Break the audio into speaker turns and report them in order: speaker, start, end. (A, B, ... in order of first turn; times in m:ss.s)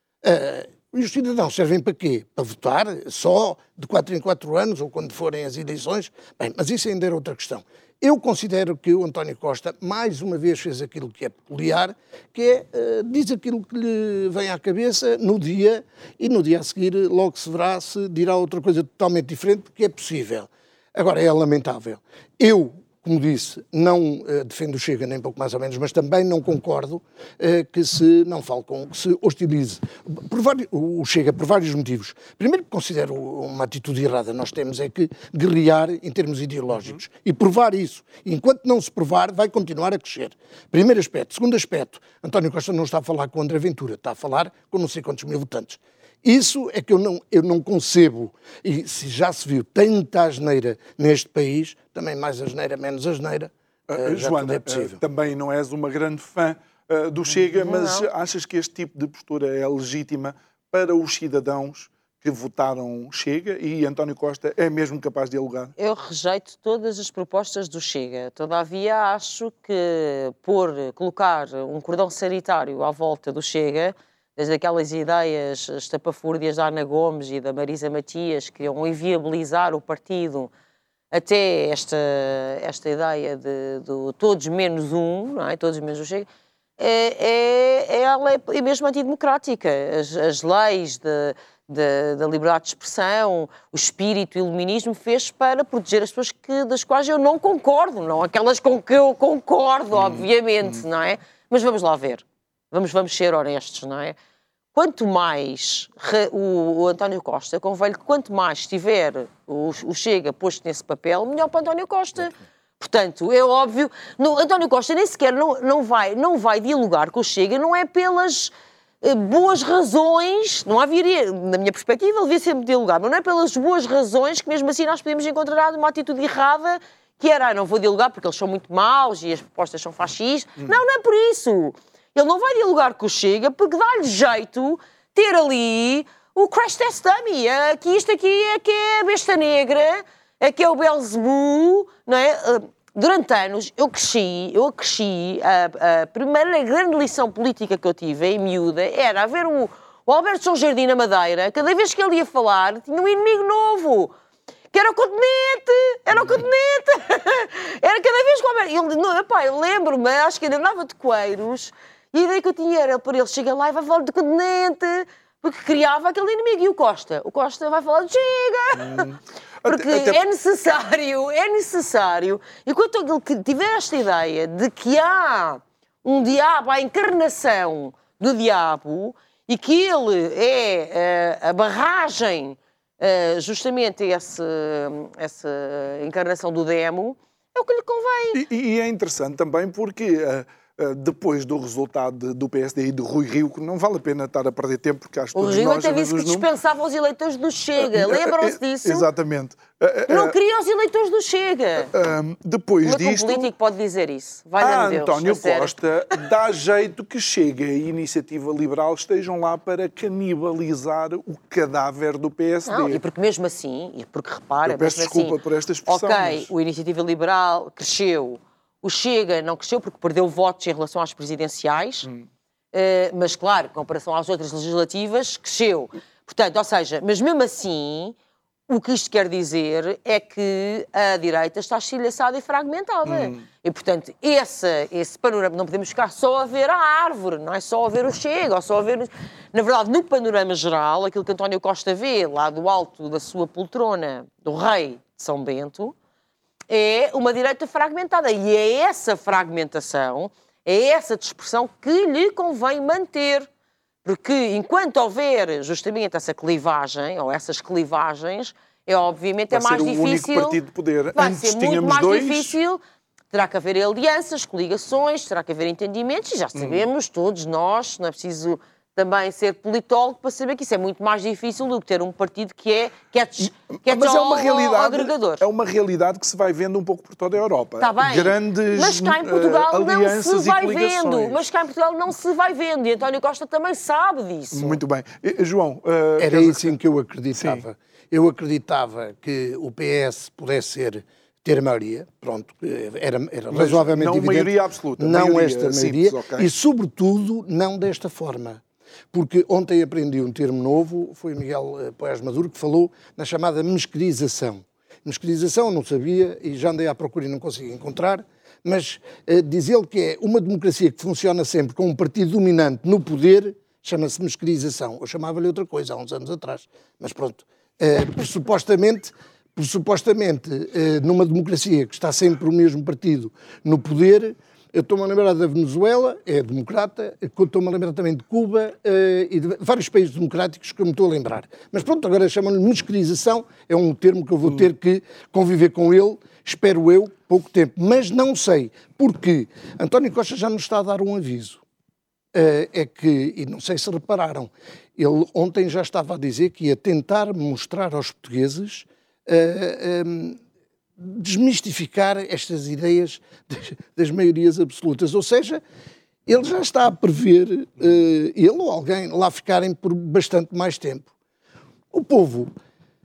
0:00.2-0:55.0 A
0:53.9-1:05.7 B
0:57.6-0:58.1 C
1:05.8-1:20.5 C
1:21.1-1:26.3 C
1:26.8-1:44.2 C
1:39.9-1:40.8 B
1:44.7-2:34.1 C
2:34.7-2:49.1 C
2:36.2-2:36.4 B
2:48.8-2:50.2 B
2:49.6-3:08.4 C
3:08.3-3:16.5 B
3:15.4-3:19.1 C
3:17.8-3:20.4 B
3:20.1-3:21.9 C
3:21.9-3:23.5 B
3:22.8-3:25.8 C
3:24.6-3:33.0 B
3:32.7-3:42.1 C
3:34.6-3:36.5 B
3:42.7-3:48.2 C
3:48.7-4:06.0 C
3:53.0-3:53.4 B
4:06.7-4:13.5 C
4:14.0-4:20.6 C
4:19.5-4:22.6 B
4:21.2-4:22.8 C
4:23.3-4:35.4 C
4:26.6-4:26.9 B
4:33.4-4:41.4 B
4:37.8-4:44.8 C
4:44.5-4:46.8 B
4:46.2-4:58.6 A
4:47.4-4:47.6 B
4:53.5-4:56.5 B
4:59.1-5:41.6 A
5:42.3-5:50.4 A
5:51.0-5:55.6 A
5:56.3-6:01.1 A
6:01.9-6:02.5 A